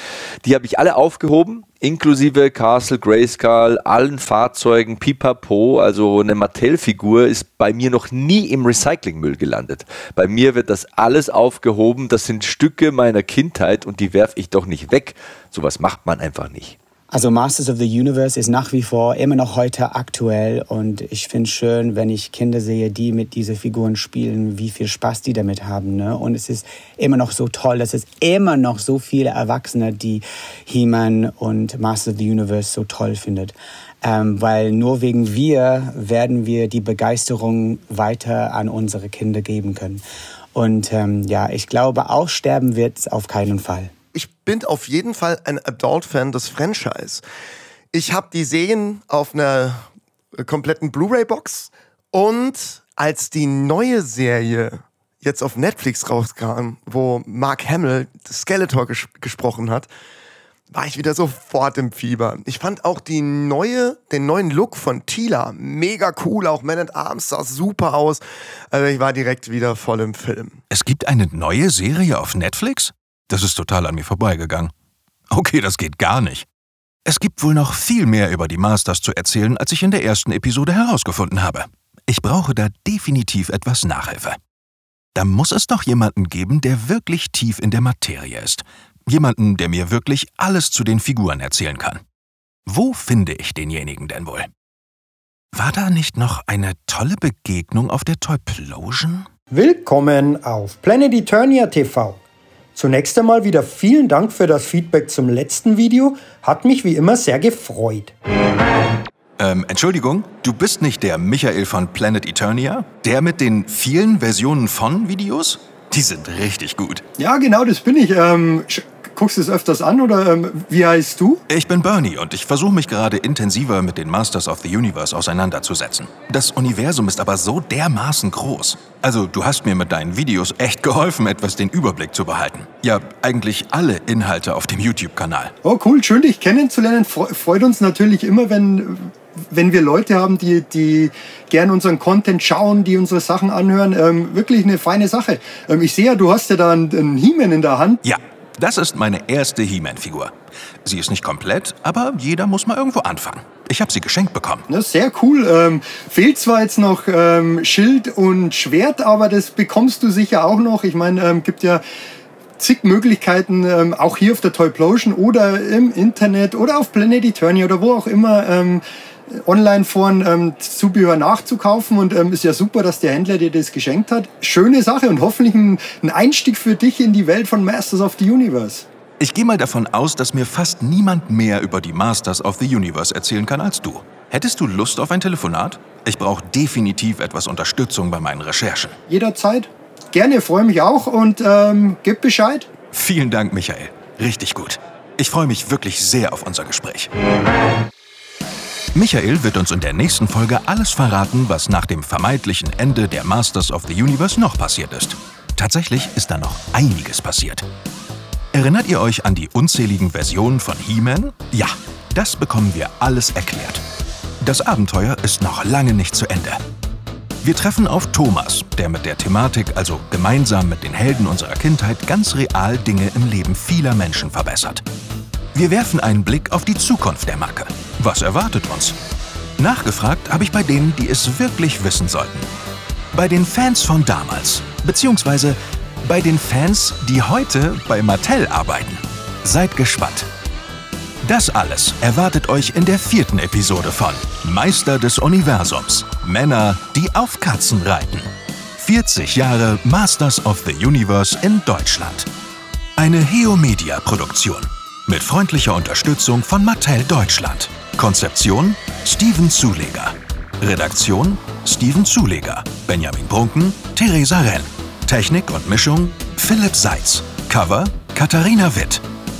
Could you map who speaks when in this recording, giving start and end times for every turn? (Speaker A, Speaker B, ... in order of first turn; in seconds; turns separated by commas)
Speaker A: 0.4-16.8, Speaker B: 17.1-40.0, Speaker B: 40.5-43.9, Speaker C: 44.1-47.2, Speaker C: 47.9-49.9, Speaker C: 50.4-59.9, Speaker C: 60.7-70.6, Speaker D: 70.7-74.7, Speaker D: 75.3-76.5, Speaker D: 77.1-84.4, Speaker D: 85.2-92.0, Speaker D: 92.7-94.5, Speaker D: 95.5-99.3, Speaker E: 99.5-102.2, Speaker E: 102.8-108.1, Speaker D: 109.4-117.0, Speaker E: 117.2-121.4, Speaker D: 121.5-135.5, Speaker E: 135.6-148.0, Speaker D: 148.0-150.3, Speaker D: 150.8-154.7, Speaker E: 154.7-161.8, Speaker E: 162.6-178.9, Speaker D: 179.2-188.9, Speaker E: 189.1-192.7, Speaker D: 192.9-197.1, Speaker D: 198.9-207.6, Speaker D: 208.5-213.8, Speaker D: 214.4-216.6, Speaker D: 217.4-224.8, Speaker D: 225.5-229.0, Speaker D: 229.6-232.5, Speaker D: 233.1-240.3, Speaker D: 241.2-252.3, Speaker D: 253.0-269.0